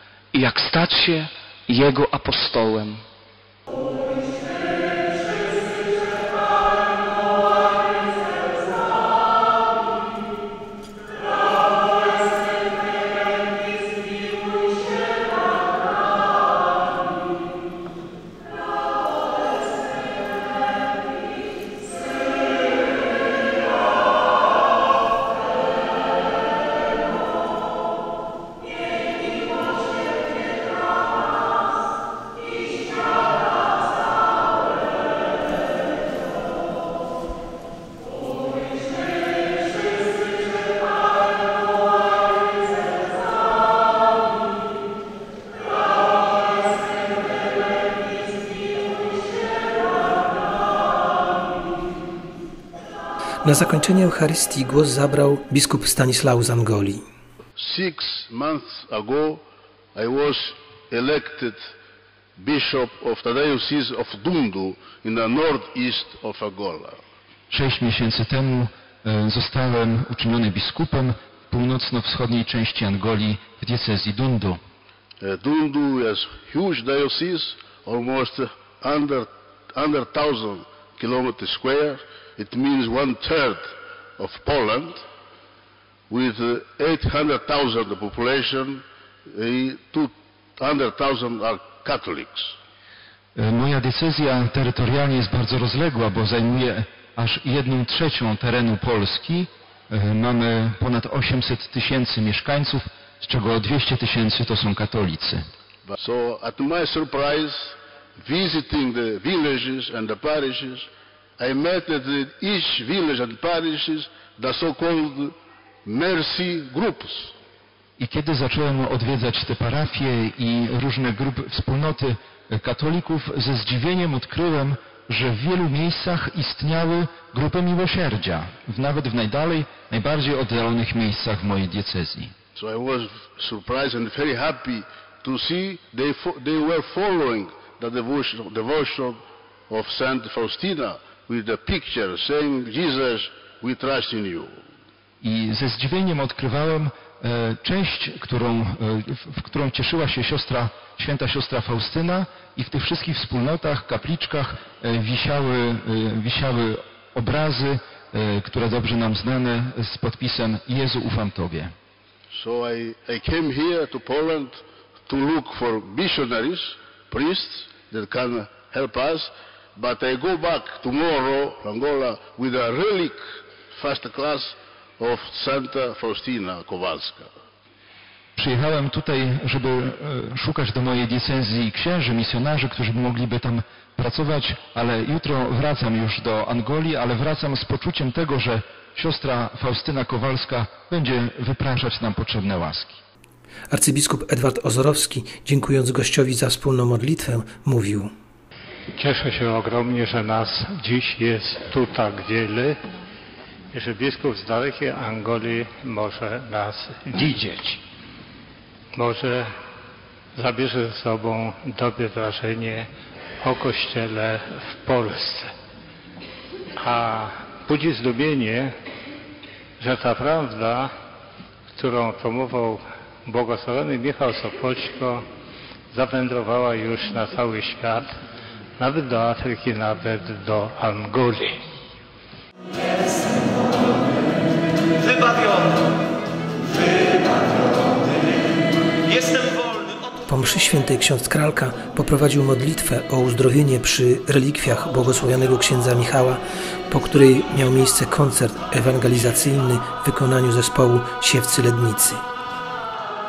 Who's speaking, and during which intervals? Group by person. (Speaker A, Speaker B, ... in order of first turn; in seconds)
Speaker A: 0.3-3.0
Speaker B: 53.4-57.0, 193.7-198.1, 240.3-252.2
Speaker C: 57.6-59.4, 60.0-61.7, 62.4-67.0, 75.2-85.0, 86.1-92.5, 105.9-115.3, 115.8-117.3, 132.6-144.6, 162.3-177.3
Speaker D: 67.5-74.6, 93.4-105.5, 118.0-132.3, 145.2-161.7, 178.4-193.0
Speaker E: 199.0-202.8, 203.7-207.8, 208.9-209.5, 210.4-212.9, 213.4-215.5, 216.8-218.7, 219.8-220.9, 221.7-225.2, 225.9-228.1, 228.8-231.6